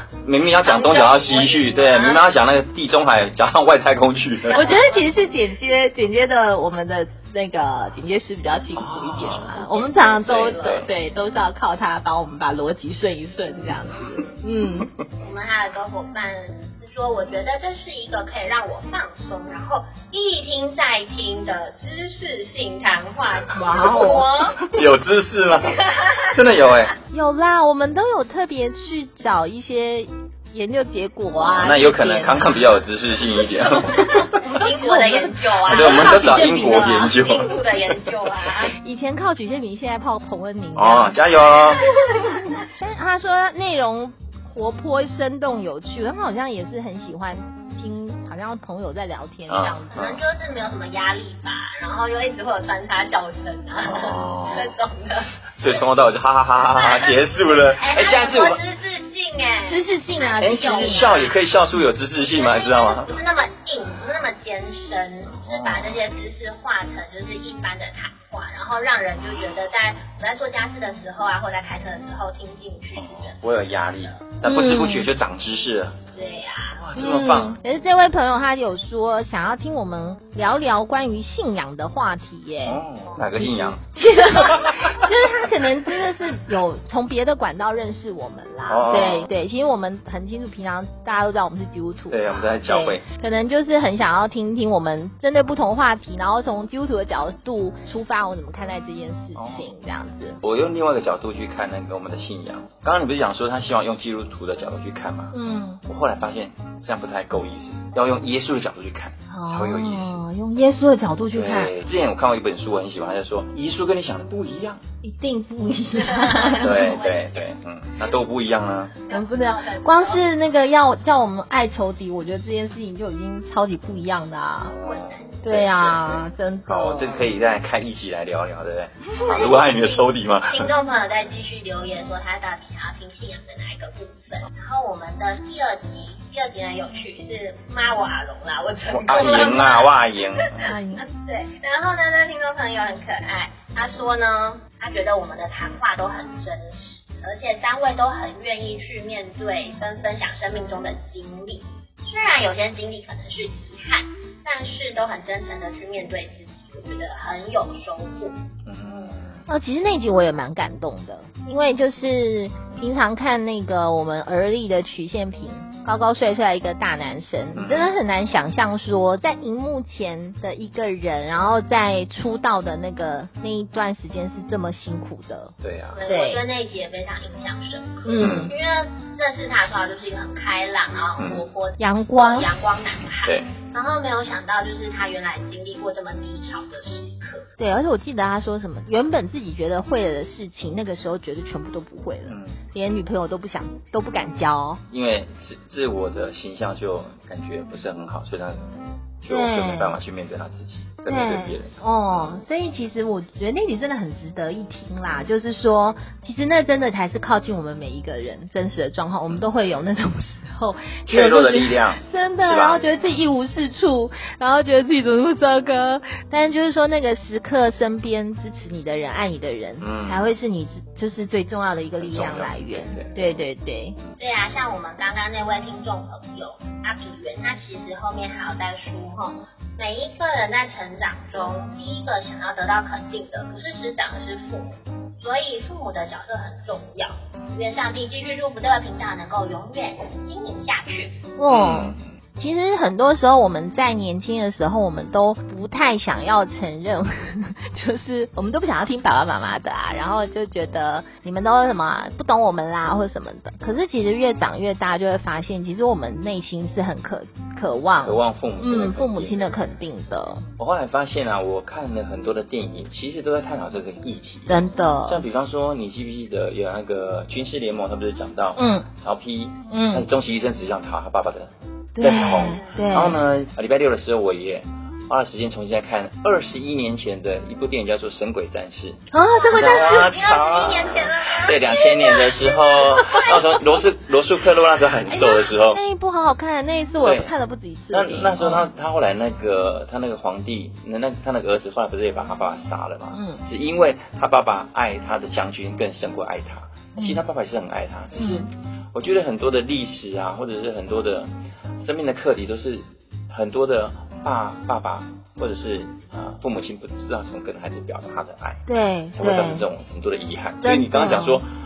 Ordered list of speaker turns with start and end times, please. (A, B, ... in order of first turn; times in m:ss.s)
0:00.2-0:04.8 A
0:00.6-0:02.3 B
0:04.5-0:14.9 C
0:04.5-0:05.0 B
0:08.8-0:09.6 A
0:09.4-0:10.9 B
0:10.2-0:10.9 A
0:15.2-0:24.7 B
0:23.5-0:24.4 C
0:24.6-0:26.9 A
0:25.8-0:26.3 B
0:27.1-0:32.7 C
0:31.4-0:34.3 A
0:33.6-0:37.1 C
0:34.3-0:38.7 B
0:35.7-0:38.1 A
0:38.7-0:50.0 C
0:40.8-0:41.8 A
0:49.5-0:50.2 A
0:49.9-0:55.4 B
0:53.8-0:54.8 A
0:55.6-0:58.6 A
0:56.8-1:01.5 B
0:59.7-1:01.1 C
1:00.4-1:03.2 A
1:02.3-1:14.2 B
1:05.4-1:06.0 A
1:13.0-1:16.0 A
1:14.4-1:15.1 C
1:16.1-1:16.8 B
1:16.8-1:17.6 A
1:17.0-1:40.4 C
1:22.6-1:23.8 A
1:24.3-1:24.9 A
1:28.7-1:29.3 A
1:32.1-1:33.0 A
1:39.3-1:39.7 A
1:40.4-1:45.3 A
1:45.3-1:45.8 C
1:45.9-1:50.2 A
1:49.3-1:51.8 C
1:51.3-1:54.8 A
1:55.0-1:57.0 C
1:56.0-1:57.5 B
1:56.6-1:59.0 A
1:59.0-2:00.3 B
1:59.1-2:04.8 C
2:04.7-2:05.6 B
2:05.4-2:07.2 C
2:05.5-2:06.2 A
2:06.7-2:10.7 A
2:09.2-2:38.4 B
2:18.9-2:20.7 A
2:20.6-2:21.0 C
2:38.7-2:39.4 A
2:39.5-2:55.5 C
2:47.6-2:47.9 A
2:55.6-2:56.0 A
2:55.9-3:07.5 B
2:56.1-2:56.4 C
2:58.0-2:58.5 C
2:58.2-2:58.5 A
3:01.2-3:01.4 A
3:01.8-3:02.6 C
3:03.2-3:03.5 A
3:07.6-3:14.8 C
3:12.3-3:12.6 A
3:14.9-3:18.7 A
3:19.2-3:22.3 A
3:19.3-3:20.0 C
3:21.1-3:44.0 C
3:31.1-3:32.8 A
3:39.8-3:40.3 A
3:42.0-3:43.4 A
3:44.2-4:01.2 B
4:01.4-4:20.5 C
4:01.5-4:02.0 A
4:18.0-4:19.6 A
4:20.6-4:45.8 A
4:24.5-4:25.2 C
4:28.6-4:28.9 C
4:29.7-4:30.1 C
4:32.0-4:33.2 C
4:32.2-4:32.8 B
4:39.1-4:40.2 C
4:39.3-4:41.9 B
4:41.9-4:43.4 C
4:45.1-4:48.7 C
4:47.0-4:47.3 A
4:47.9-5:08.6 A
4:53.1-4:53.4 C
4:57.0-4:57.2 C
4:58.2-4:58.5 C
5:08.7-5:09.6 C
5:09.2-5:11.5 A
5:10.6-5:11.4 C